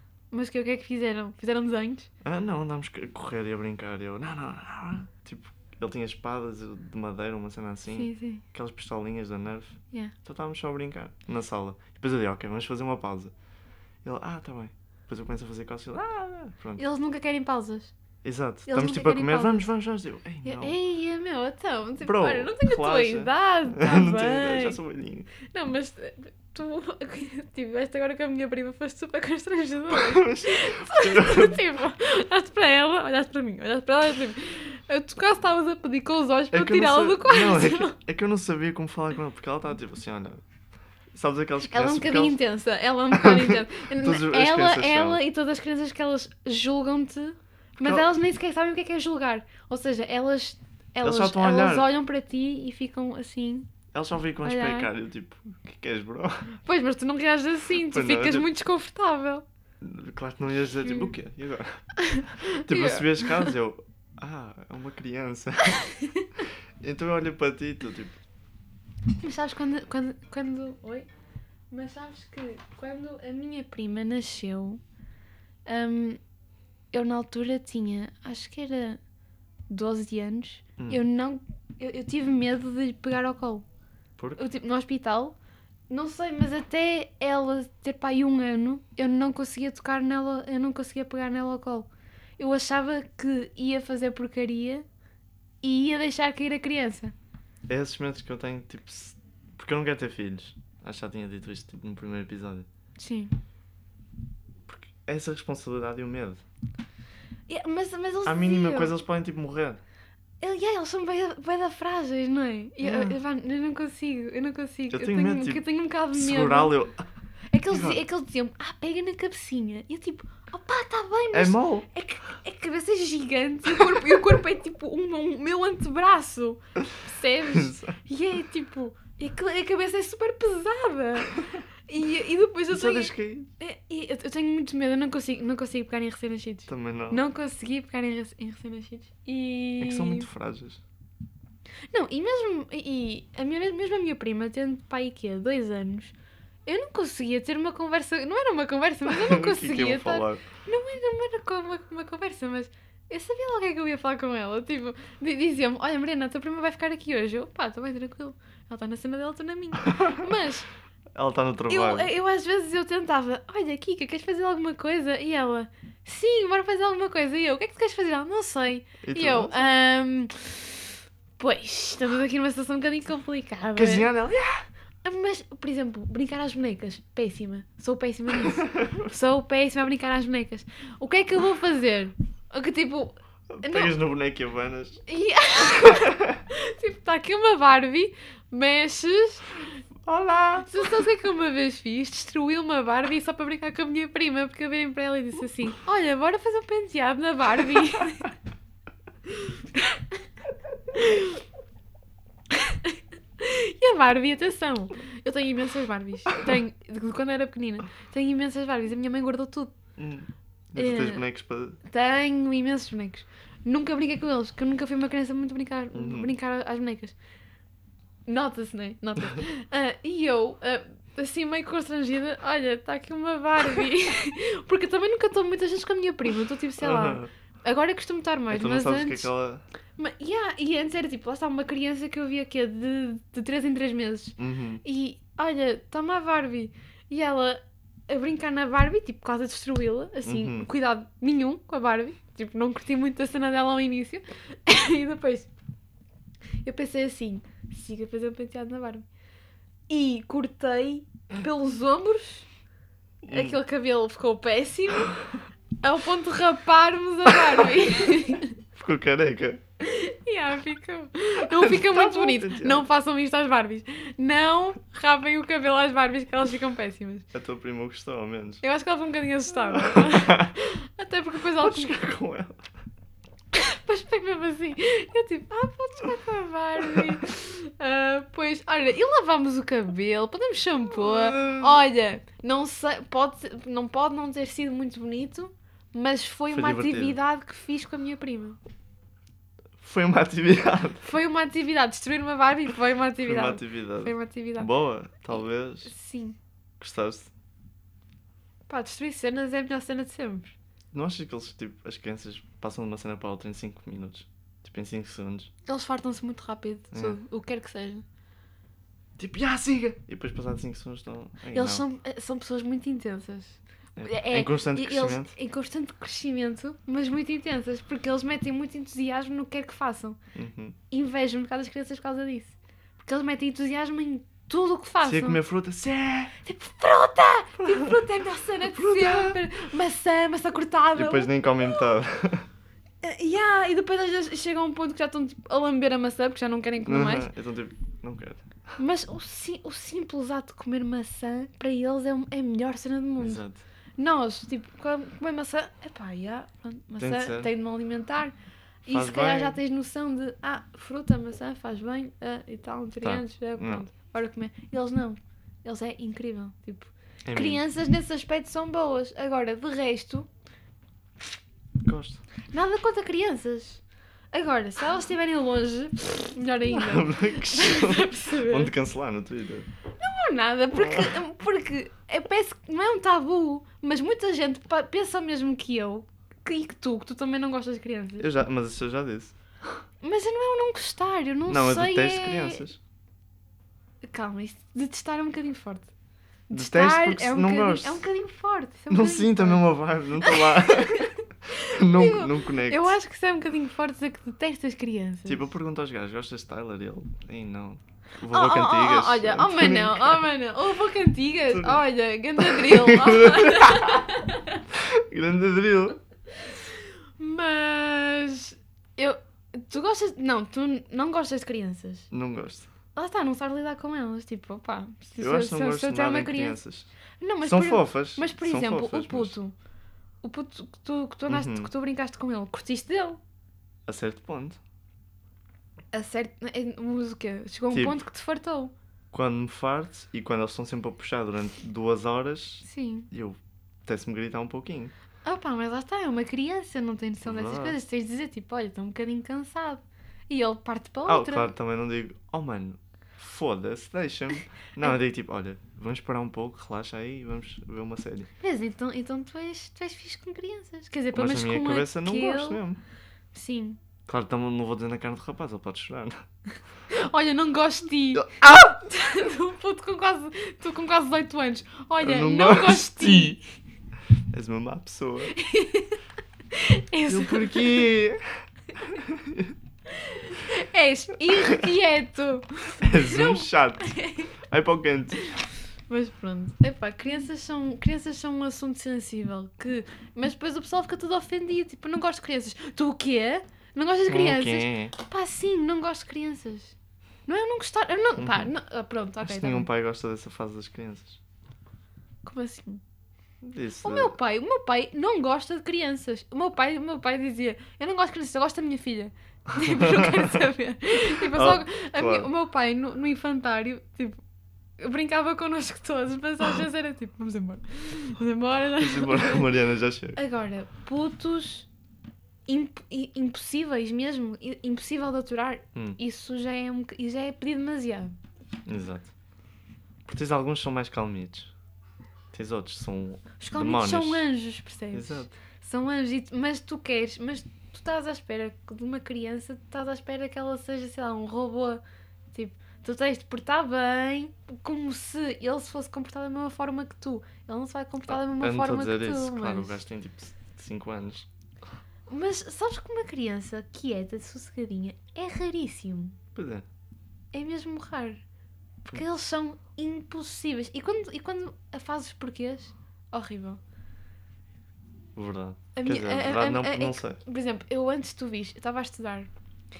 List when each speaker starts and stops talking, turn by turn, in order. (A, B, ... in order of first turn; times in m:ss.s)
0:00.3-0:02.1 A
0:02.2-0:13.3 B
0:07.9-0:08.4 A
0:14.0-0:16.8 B
0:16.8-0:17.9 A
0:18.2-0:20.7 B
0:18.6-0:19.6 A
0:20.4-0:24.8 A
0:22.0-0:25.3 B
0:25.5-0:38.0 A
0:29.9-0:31.6 B
0:36.5-0:40.4 B
0:41.1-0:42.4 B
0:41.7-0:53.7 A
0:43.1-0:45.2 B
0:47.8-0:48.0 B
0:51.0-0:51.9 B
0:53.9-0:56.4 B
0:54.4-0:54.9 A
0:56.6-0:59.4 A
0:57.9-0:58.5 B
0:59.8-1:01.8 B
1:00.8-1:01.1 A
1:02.0-1:03.5 A
1:02.5-1:05.8 B
1:05.8-1:06.3 A
1:06.4-1:08.2 B
1:09.2-1:11.1 A
1:11.7-1:14.8 A
1:15.6-1:16.2 A
1:16.9-1:19.0 A
1:19.7-1:23.6 A
1:24.2-1:24.4 B
1:24.4-1:25.4 A
1:25.9-1:34.8 A
1:35.6-1:37.1 A
1:37.7-1:42.7 B
1:43.0-1:43.3 A
1:44.7-1:46.4 B
1:47.5-1:49.0 A
1:48.2-1:49.8 B
1:50.4-1:56.7 A
1:52.8-1:53.2 B
1:54.9-1:57.0 B
1:57.5-2:20.3 A
1:57.7-1:58.0 B
2:01.3-2:01.9 B
2:07.5-2:08.0 B
2:12.7-2:13.5 B
2:16.7-2:17.2 B
2:19.8-2:20.8 B
2:21.9-2:26.1 A
2:26.6-2:40.7 A
2:29.0-2:30.4 B
2:41.1-2:42.1 B
2:41.7-2:50.8 A
2:49.0-2:49.6 B
2:51.4-2:54.1 A
2:53.7-2:54.6 B
2:55.0-3:03.9 A
2:58.5-2:59.1 B
3:03.5-3:05.0 B
3:05.1-3:09.5 A
3:05.6-3:06.4 B
3:10.0-3:10.8 B
3:10.7-3:18.3 A
3:19.4-3:20.2 A
3:20.9-3:21.4 A
3:22.5-3:29.7 A
3:30.0-3:31.8 B
3:30.8-3:31.2 A
3:31.8-3:37.1 A
3:35.9-3:36.3 B
3:38.2-3:49.3 A
3:46.8-3:47.3 B
3:48.5-3:49.6 B
3:50.0-4:05.5 A
3:54.4-3:54.8 B
4:00.2-4:00.7 B
4:06.6-4:09.0 A
4:09.9-4:12.5 A
4:13.2-4:13.6 B
4:13.3-4:15.2 A
4:15.8-4:18.5 A
4:18.8-4:19.6 B
4:19.8-4:27.2 A
4:21.4-4:22.9 B
4:27.3-4:28.6 B
4:28.6-4:32.0 A
4:29.7-4:30.5 B
4:31.6-4:32.7 B
4:33.5-4:48.6 A
4:36.9-4:37.2 B
4:40.9-4:41.8 B
4:46.5-4:47.2 B
4:49.8-4:51.0 B
4:51.0-4:54.7 A
4:53.2-4:55.9 B
4:55.8-4:56.4 A
4:56.8-4:57.3 B
4:58.7-5:00.5 A
5:00.9-5:05.5 B
5:05.6-5:08.0 A
5:06.9-5:07.2 B
5:09.2-5:11.8 B
5:11.5-5:20.2 A
5:14.0-5:15.3 B
5:20.3-5:20.8 B
5:20.9-5:25.4 A
5:25.0-5:26.3 B
5:26.4-5:31.9 A
5:27.6-5:28.0 B
5:28.7-5:29.4 B
5:30.9-5:32.5 B
5:33.0-5:37.3 A
5:36.8-5:38.7 B
5:38.8-5:43.4 A
5:43.2-5:43.6 B
5:44.0-5:48.3 A
5:47.0-5:47.5 B
5:48.8-6:00.3 A
5:48.9-5:49.6 B
5:53.0-5:53.8 B
5:57.2-5:57.6 B
6:01.8-6:02.2 B
6:02.5-6:03.8 A
6:04.3-6:08.7 A
6:06.7-6:09.7 B
6:10.0-6:18.3 A
6:10.8-6:11.1 B
6:18.2-6:19.4 B
6:20.0-6:22.6 A
6:21.5-6:22.8 B
6:24.0-6:25.9 A
6:26.5-6:29.6 A
6:26.5-6:28.1 B
6:28.9-6:32.9 B
6:30.2-6:35.5 A
6:35.2-6:40.3 B
6:38.3-6:44.6 A
6:41.5-6:41.8 B
6:42.4-6:44.1 B
6:44.7-6:46.0 B
6:47.2-6:52.1 A
6:52.1-6:52.7 B
6:52.9-6:56.6 A
6:55.2-6:56.9 B
6:57.2-6:59.5 A
6:57.4-6:59.4 B
7:00.2-7:03.2 A
7:01.3-7:01.7 B
7:03.8-7:04.6 B
7:05.9-7:08.7 A
7:07.7-7:08.0 B
7:09.1-7:14.9 B
7:12.6-7:13.1 A
7:15.2-7:21.5 A
7:17.2-7:17.8 B
7:21.0-7:28.3 B
7:28.4-7:32.6 A
7:31.1-7:32.8 B
7:33.3-7:33.8 A
7:34.0-7:36.2 B
7:36.9-7:43.4 A
7:38.1-7:38.7 B
7:42.0-7:43.4 B
7:44.3-7:45.3 B
7:45.3-7:46.0 A
7:46.5-7:47.9 A
7:47.1-7:48.2 B
7:48.9-7:49.5 B
7:49.9-7:54.3 A
7:52.8-7:54.0 B
7:54.5-7:55.2 B
7:55.2-8:06.7 A
8:04.1-8:04.9 B
8:07.3-8:09.7 A
8:08.2-8:08.5 B
8:09.2-8:11.2 B
8:12.2-8:12.8 A
8:13.4-8:14.1 B
8:13.8-8:24.2 A
8:19.6-8:20.4 B
8:21.1-8:22.3 B
8:24.8-8:29.5 A
8:28.8-8:30.2 B
8:30.2-8:31.7 A
8:32.5-8:38.1 A
8:38.6-8:39.1 B
8:40.0-8:41.5 B
8:42.3-8:44.2 B
8:43.4-8:59.8 A
8:44.9-8:45.3 B
8:58.1-9:01.3 B
9:02.1-9:06.2 A
9:06.3-9:06.6 B
9:07.3-9:08.2 A
9:08.9-9:13.6 A
9:15.1-9:17.2 B
9:15.7-9:19.3 A